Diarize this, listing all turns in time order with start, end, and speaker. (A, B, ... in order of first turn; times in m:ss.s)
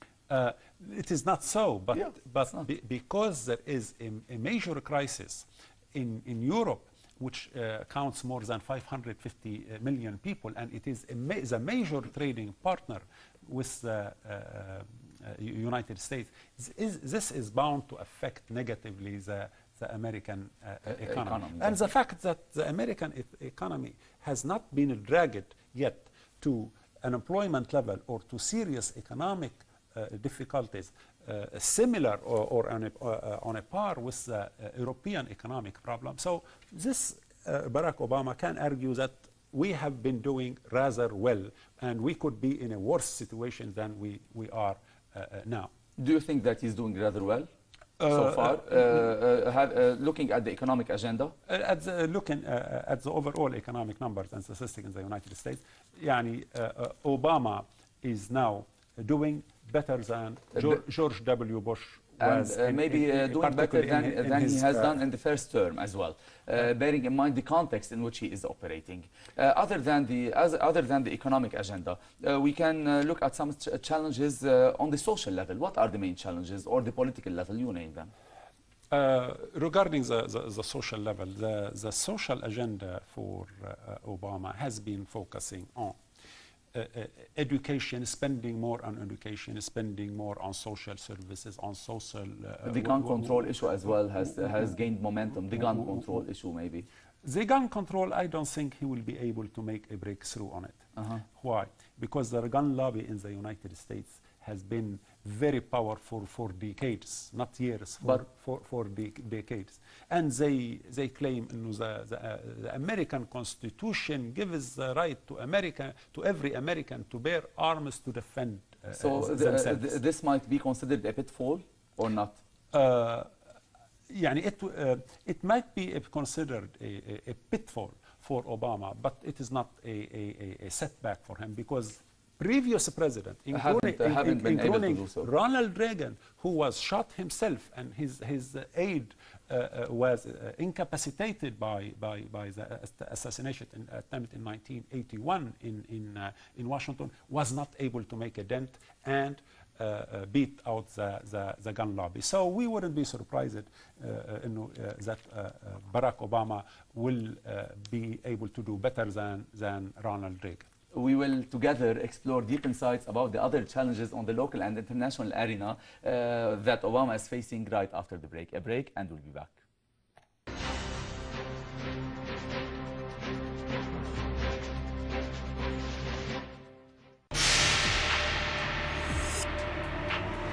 0:00.3-0:45.7 A
0:01.9-0:02.7 B
0:20.9-0:21.8 B
0:46.0-0:47.5 B
0:48.0-0:49.1 A
0:48.1-0:51.3 B
0:51.5-1:05.0 A
1:02.2-1:18.1 B
1:18.9-1:26.0 A
1:26.7-1:34.7 A
1:32.7-1:36.9 B
1:35.5-1:36.2 A
1:37.2-1:40.8 A
1:41.0-1:41.2 B
1:41.3-2:00.0 A
1:58.9-2:02.4 B
2:02.7-2:03.3 A
2:04.1-2:40.7 A
2:13.5-2:15.3 B
2:40.9-2:49.6 B